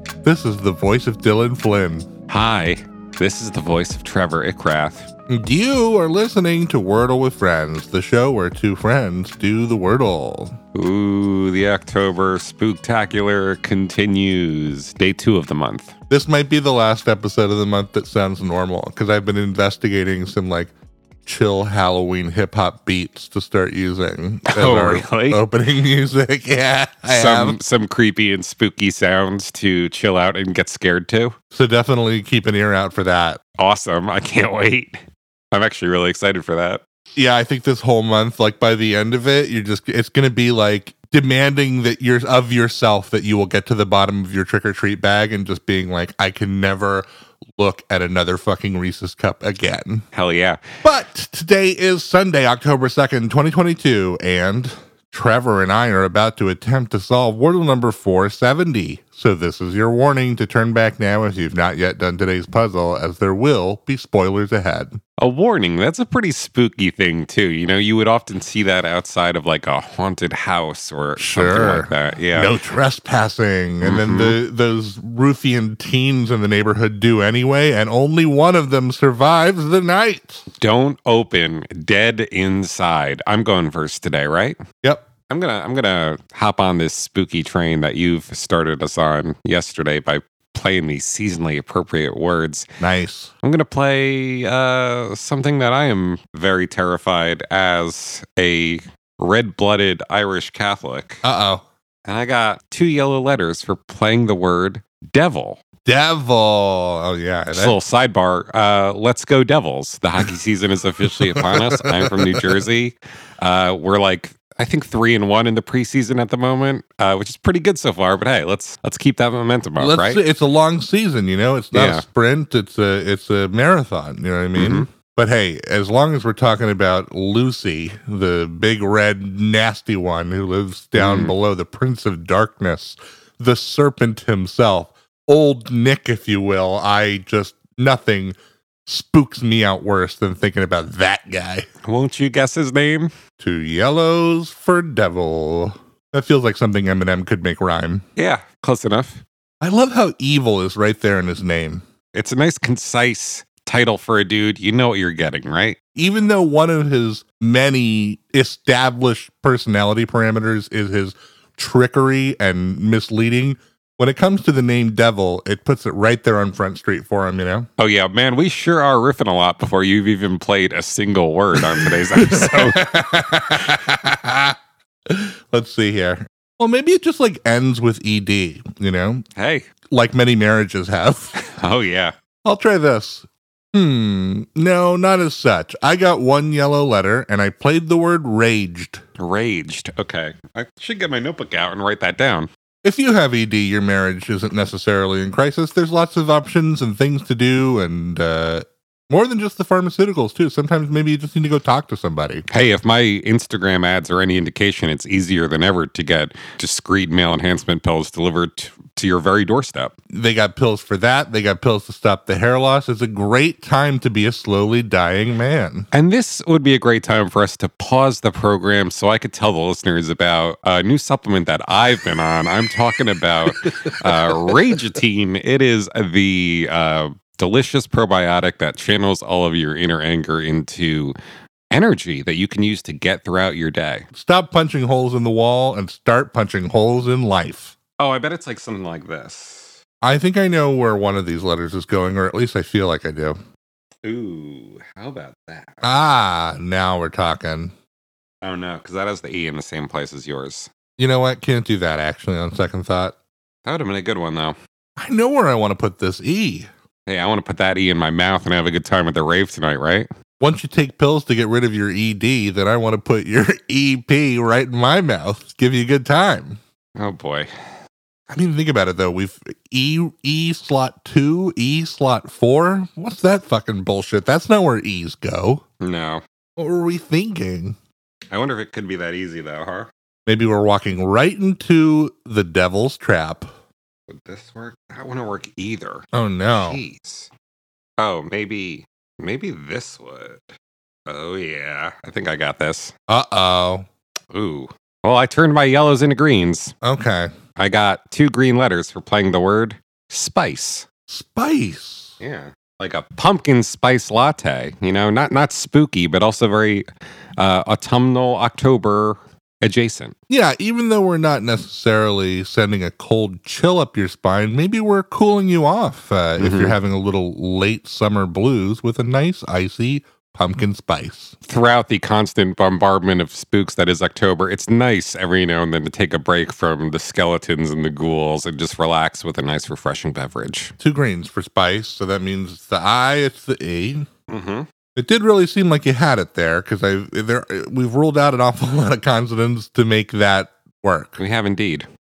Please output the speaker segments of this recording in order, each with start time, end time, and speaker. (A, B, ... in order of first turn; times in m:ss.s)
0:00.2-0:02.1 A
0:02.3-0:05.1 B
0:05.3-0:10.5 A
0:10.7-0:15.9 B
0:16.1-0:20.7 A
0:21.2-0:27.6 A
0:24.5-0:25.4 B
0:27.1-0:31.3 B
0:31.5-0:33.4 A
0:33.6-0:35.0 B
0:35.5-0:36.8 B
0:37.2-0:47.0 A
0:47.6-0:50.0 A
0:50.1-0:50.6 B
0:50.8-1:05.0 A
1:05.2-1:12.6 B
1:11.2-1:20.4 A
1:13.8-1:14.4 B
1:20.6-1:24.6 B
1:25.3-1:32.7 B
1:32.8-1:33.3 A
1:33.4-1:41.2 B
1:41.2-1:41.6 A
1:42.0-1:45.6 B
1:45.8-1:47.8 A
1:47.5-2:00.2 B
1:51.0-1:52.4 A
1:59.8-2:18.3 A
2:01.7-2:02.0 B
2:04.5-2:04.8 B
2:11.0-2:11.3 B
2:18.8-2:21.7 A
2:21.8-2:23.1 B
2:23.4-2:28.0 A
2:28.2-2:29.2 B
2:29.6-2:31.8 A
2:32.1-2:35.8 B
2:36.0-2:47.7 A
2:47.8-2:52.9 B
2:51.6-2:54.6 A
2:55.1-2:59.2 A
2:59.4-2:59.7 B
2:59.9-3:01.4 A
3:01.4-3:02.1 B
3:02.4-3:09.0 A
3:09.2-3:12.5 B
3:12.8-3:22.4 A
3:22.5-3:29.9 B
3:30.1-3:35.9 A
3:35.9-3:51.1 B
3:51.7-3:54.0 B
3:54.1-3:57.8 A
3:58.0-3:59.8 B
4:00.0-4:03.4 A
4:04.0-4:05.8 B
4:05.8-4:07.7 A
4:08.4-4:10.7 B
4:11.0-4:13.2 A
4:13.6-4:14.6 B
4:15.0-4:16.7 A
4:17.0-4:20.1 B
4:20.4-4:26.6 A
4:27.0-4:27.5 B
4:28.3-4:35.6 A
4:35.8-4:36.2 B
4:36.6-4:37.8 A
4:38.3-4:39.9 B
4:40.2-4:43.5 A
4:44.1-4:47.3 B
4:46.1-4:46.8 A
4:48.0-4:50.5 B
4:51.1-4:52.9 B
4:53.1-4:53.8 A
4:54.3-4:56.7 B
4:56.8-4:57.3 A
4:57.6-5:00.8 B
5:01.1-5:02.2 A
5:02.2-5:06.8 B
5:07.4-5:10.1 B
5:10.3-5:21.3 A
5:16.4-5:16.8 B
5:21.4-5:30.7 B
5:30.8-5:34.0 A
5:34.3-5:34.6 B
5:35.0-5:41.2 A
5:41.2-5:41.9 B